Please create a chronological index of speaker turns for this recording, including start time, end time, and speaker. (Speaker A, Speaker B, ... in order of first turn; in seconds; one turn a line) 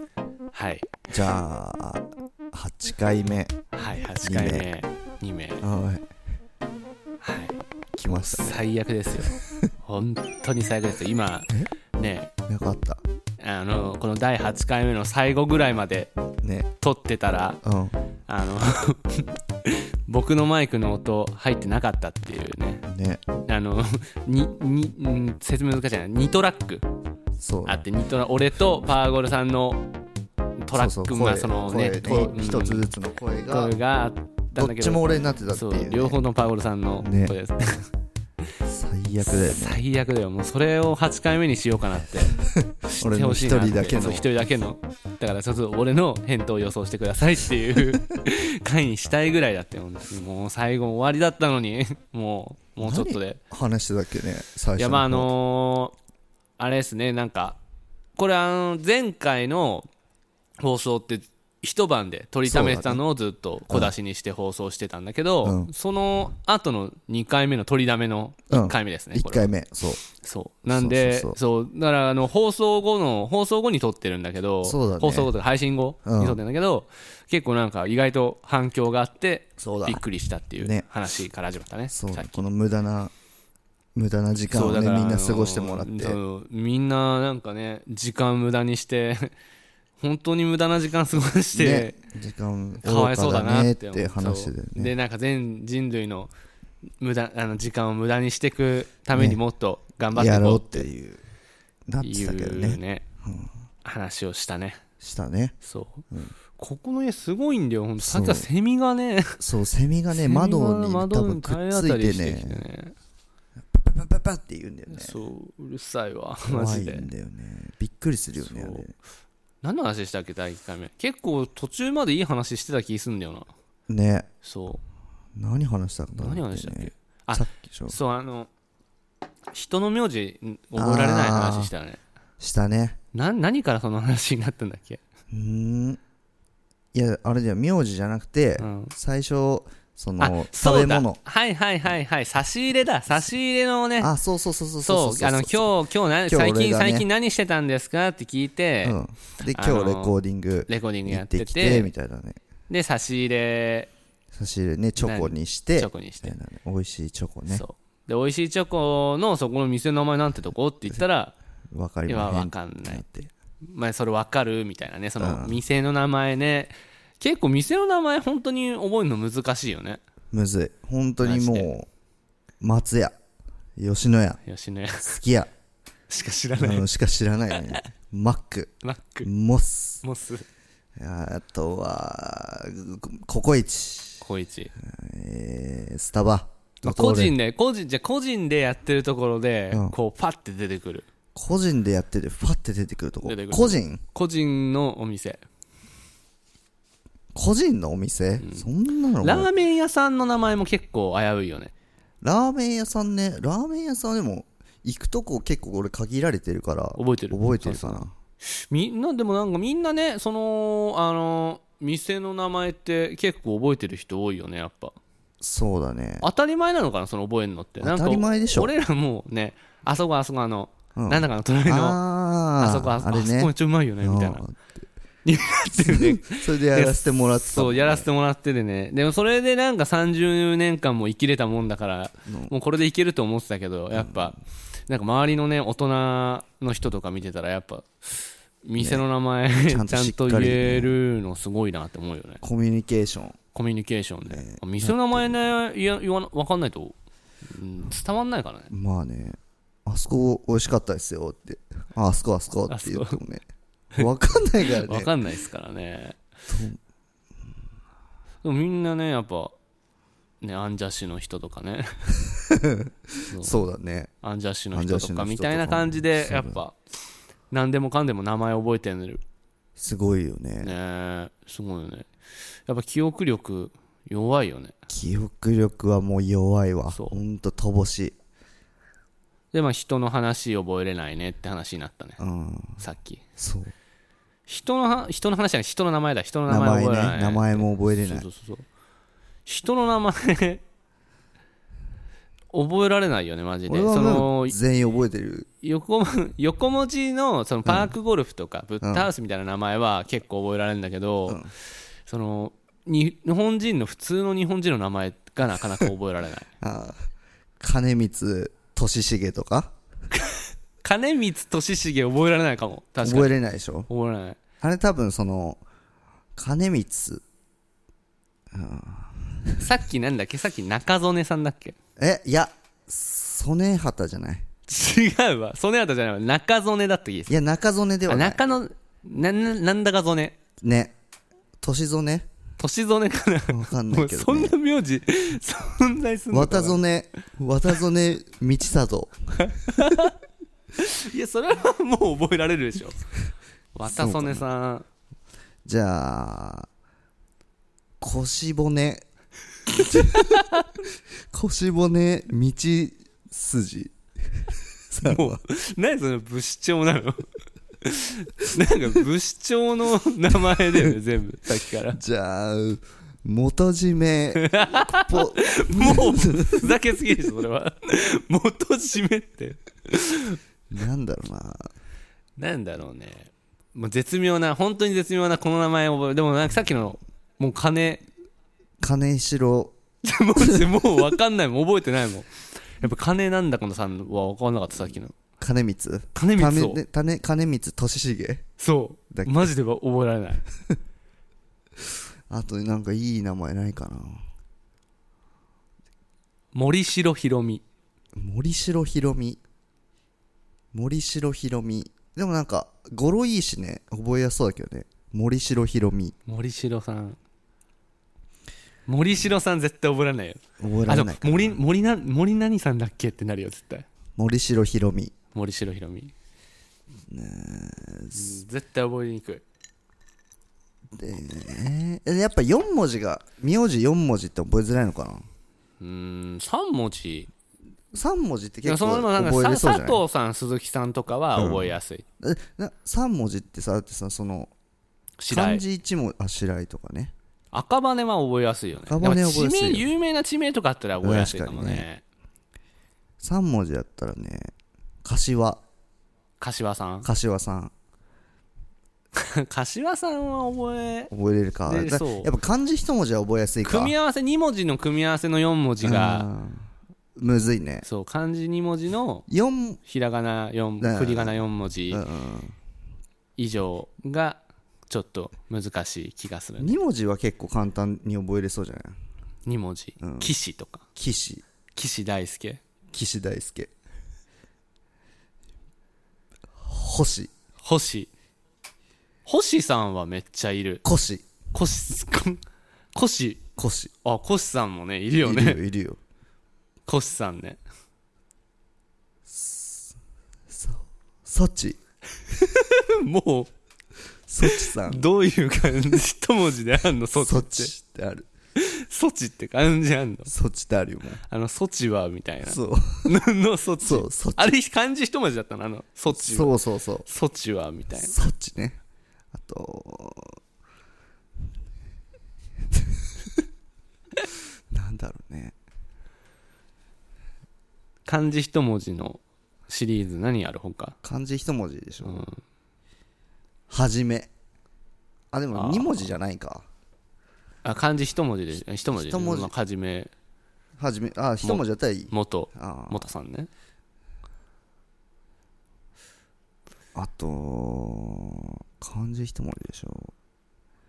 Speaker A: 0.5-0.9
Speaker B: 1.1-3.5
Speaker A: 3.7-5.6
Speaker B: 4.2-4.7
Speaker B: 5.6-6.0
Speaker A: 7.2-12.3
Speaker B: 8.0-8.6
Speaker B: 9.3-9.7
Speaker B: 12.5-13.0
Speaker A: 13.4-16.1
Speaker B: 16.4-16.7
Speaker A: 16.8-17.6
Speaker B: 17.6-18.0
Speaker A: 18.3-22.9
Speaker B: 22.9-23.2
Speaker A: 23.5-26.8
Speaker B: 27.4-27.9
Speaker A: 27.7-29.9
Speaker A: 30.6-32.9
Speaker B: 30.7-33.8
Speaker A: 33.5-37.9
Speaker B: 34.6-36.2
Speaker B: 37.0-37.4
Speaker B: 38.6-39.8
Speaker A: 39.2-42.4
Speaker A: 42.9-53.4
Speaker B: 42.9-44.3
Speaker B: 52.8-55.3
Speaker A: 54.8-56.0
Speaker A: 56.6-57.6
Speaker A: 58.2-59.9
Speaker A: 60.6-69.5
Speaker B: 62.5-63.0
Speaker B: 63.7-63.9
Speaker B: 65.4-65.7
Speaker B: 68.5-70.0
Speaker A: 70.0-82.4
Speaker B: 70.7-71.4
Speaker B: 74.6-75.3
Speaker B: 76.0-76.4
Speaker B: 79.6-80.0
Speaker B: 80.6-80.9
Speaker B: 81.9-83.1
Speaker B: 84.0-86.2
Speaker A: 84.5-89.3
Speaker A: 90.0-92.0
Speaker B: 91.5-94.9
Speaker A: 92.8-96.3
Speaker A: 97.0-100.9
Speaker B: 99.1-99.4
Speaker B: 100.1-101.2
Speaker B: 101.9-103.5
Speaker A: 102.0-103.0
Speaker A: 103.8-104.8
Speaker B: 105.0-105.5
Speaker A: 105.6-106.0
Speaker B: 106.1-106.4
Speaker A: 106.6-109.4
Speaker B: 108.0-108.5
Speaker B: 109.4-112.6
Speaker A: 110.1-113.0
Speaker B: 113.6-115.2
Speaker A: 114.9-117.1
Speaker B: 116.5-118.9
Speaker A: 118.4-118.9
Speaker A: 119.6-123.5
Speaker B: 123.9-124.3
Speaker A: 124.4-124.8
Speaker B: 125.4-128.0
Speaker A: 126.2-128.5
Speaker A: 129.5-132.0
Speaker B: 130.8-131.7
Speaker B: 132.4-133.0
Speaker A: 133.1-135.0
Speaker B: 135.3-136.0
Speaker B: 136.9-141.2
Speaker A: 138.6-138.9
Speaker A: 140.2-144.1
Speaker B: 144.0-145.7
Speaker A: 144.8-150.2
Speaker B: 146.3-147.1
Speaker B: 148.8-152.4
Speaker A: 150.7-151.9
Speaker A: 152.7-153.9
Speaker B: 154.3-157.7
Speaker A: 155.0-156.4
Speaker A: 157.5-161.3
Speaker B: 161.7-163.3
Speaker A: 162.1-163.1
Speaker A: 163.6-170.0
Speaker B: 165.2-165.6
Speaker B: 170.3-171.9
Speaker A: 171.2-171.7
Speaker B: 172.6-173.2
Speaker B: 173.8-174.4
Speaker A: 174.5-175.2
Speaker B: 175.0-175.5
Speaker A: 176.1-176.9
Speaker B: 176.6-178.7
Speaker A: 177.5-177.8
Speaker A: 178.8-179.3
Speaker B: 179.2-180.0
Speaker A: 180.0-180.4
Speaker B: 181.0-184.2
Speaker A: 184.2-184.7
Speaker B: 184.8-187.4
Speaker A: 186.8-191.1
Speaker B: 191.3-194.0
Speaker A: 193.2-195.4
Speaker B: 197.3-199.5
Speaker A: 198.4-198.7
Speaker A: 199.2-201.7
Speaker B: 202.2-208.1
Speaker A: 207.0-215.0
Speaker B: 215.4-216.3
Speaker A: 216.2-222.0
Speaker B: 217.8-218.7
Speaker B: 221.0-224.6
Speaker A: 222.6-224.4
Speaker A: 225.2-242.4
Speaker B: 225.8-228.1
Speaker B: 232.3-232.5
Speaker B: 233.9-234.3
Speaker B: 238.8-239.0
Speaker B: 239.7-241.0
Speaker B: 242.4-243.4
Speaker A: 243.5-248.7
Speaker B: 244.3-245.4
Speaker B: 248.7-253.4
Speaker A: 252.7-253.2
Speaker B: 253.9-255.1
Speaker A: 254.6-256.2
Speaker B: 256.5-256.8
Speaker A: 258.4-259.5
Speaker A: 260.4-262.2
Speaker B: 262.3-264.1
Speaker A: 263.3-263.7
Speaker A: 264.2-266.8
Speaker B: 264.7-266.6
Speaker A: 267.5-269.2
Speaker B: 269.8-270.7
Speaker A: 270.6-272.1
Speaker A: 272.7-274.7
Speaker B: 274.9-278.2
Speaker A: 276.9-277.2
Speaker A: 279.5-282.2
Speaker B: 282.2-282.9
Speaker A: 282.8-283.2
Speaker B: 283.4-283.7
Speaker A: 284.5-288.6
Speaker B: 286.5-288.3
Speaker A: 289.5-290.6
Speaker A: 292.5-294.6
Speaker B: 293.7-295.5
Speaker A: 295.6-301.4
Speaker B: 297.6-297.9
Speaker B: 298.8-299.1
Speaker A: 302.1-306.5
Speaker B: 306.6-307.0
Speaker B: 307.6-309.7
Speaker A: 310.1-313.3
Speaker B: 313.0-313.9
Speaker A: 313.9-314.4
Speaker B: 314.6-315.6
Speaker B: 316.4-317.2
Speaker B: 318.5-319.7
Speaker A: 319.6-321.8
Speaker B: 322.0-324.5
Speaker A: 324.7-327.4
Speaker B: 327.3-328.4
Speaker A: 328.1-330.4
Speaker B: 330.6-330.9
Speaker B: 331.6-332.3
Speaker A: 332.6-336.8
Speaker B: 333.5-334.6
Speaker B: 336.3-339.9
Speaker A: 339.6-340.1
Speaker A: 340.8-343.0
Speaker A: 343.7-344.9
Speaker B: 343.9-344.5
Speaker B: 345.6-346.7
Speaker B: 348.0-349.0
Speaker B: 349.7-350.5
Speaker A: 349.9-350.7
Speaker B: 351.3-355.4
Speaker A: 355.0-357.2
Speaker A: 357.8-362.0
Speaker B: 361.9-366.8
Speaker A: 364.4-370.4
Speaker B: 370.7-371.7
Speaker A: 372.4-378.0
Speaker B: 378.8-379.8
Speaker A: 380.0-385.2
Speaker B: 380.4-380.7
Speaker B: 385.4-388.4
Speaker A: 386.1-386.8
Speaker A: 388.6-390.4
Speaker B: 389.1-389.5
Speaker B: 392.3-394.2
Speaker A: 396.5-397.6
Speaker B: 398.2-399.4
Speaker B: 400.7-406.1
Speaker A: 406.3-407.2
Speaker A: 408.9-413.9
Speaker B: 410.6-411.6
Speaker B: 414.2-415.1
Speaker A: 415.3-416.1
Speaker B: 417.1-418.4
Speaker A: 418.1-419.4
Speaker B: 420.9-425.3
Speaker A: 425.8-427.3
Speaker B: 427.9-430.0
Speaker A: 428.6-432.0
Speaker B: 431.4-434.5
Speaker A: 435.2-435.6
Speaker B: 435.3-437.1
Speaker A: 437.5-442.0
Speaker B: 438.9-439.9
Speaker B: 441.0-441.9
Speaker B: 443.2-444.5
Speaker B: 445.0-445.6
Speaker A: 446.4-447.1
Speaker B: 447.0-447.7
Speaker A: 449.2-451.1
Speaker B: 451.1-453.9
Speaker A: 451.7-452.3
Speaker A: 453.6-456.3
Speaker B: 455.8-457.9
Speaker A: 457.8-459.2
Speaker B: 459.3-459.8
Speaker A: 459.9-462.0
Speaker B: 460.8-462.6
Speaker A: 463.4-466.7
Speaker B: 466.6-469.0
Speaker A: 469.5-470.9
Speaker B: 470.0-470.3
Speaker B: 471.0-471.4
Speaker A: 471.8-472.6
Speaker B: 472.9-473.7
Speaker B: 476.6-477.3
Speaker A: 477.6-478.1
Speaker A: 479.3-480.8
Speaker B: 480.8-481.3
Speaker A: 481.5-482.4
Speaker A: 482.9-483.4
Speaker B: 483.6-483.9
Speaker A: 484.0-485.6
Speaker B: 485.2-486.0
Speaker A: 486.9-487.6
Speaker B: 489.3-490.0
Speaker B: 490.5-491.8
Speaker A: 492.3-493.5
Speaker B: 494.3-495.1
Speaker A: 494.4-497.7
Speaker B: 497.2-498.3
Speaker A: 498.6-500.3
Speaker B: 500.3-501.2
Speaker A: 501.3-506.5
Speaker B: 502.4-503.1
Speaker B: 503.8-504.6
Speaker B: 506.1-507.1
Speaker A: 507.1-508.1
Speaker B: 508.0-508.8
Speaker B: 509.3-510.4
Speaker B: 514.7-515.5
Speaker A: 518.1-521.0
Speaker B: 521.0-522.3
Speaker A: 522.0-522.4
Speaker B: 523.7-524.3
Speaker B: 525.3-526.7
Speaker A: 525.5-526.1
Speaker A: 527.6-530.1
Speaker B: 528.9-529.5
Speaker B: 530.8-533.1
Speaker A: 531.4-533.5
Speaker B: 537.0-540.1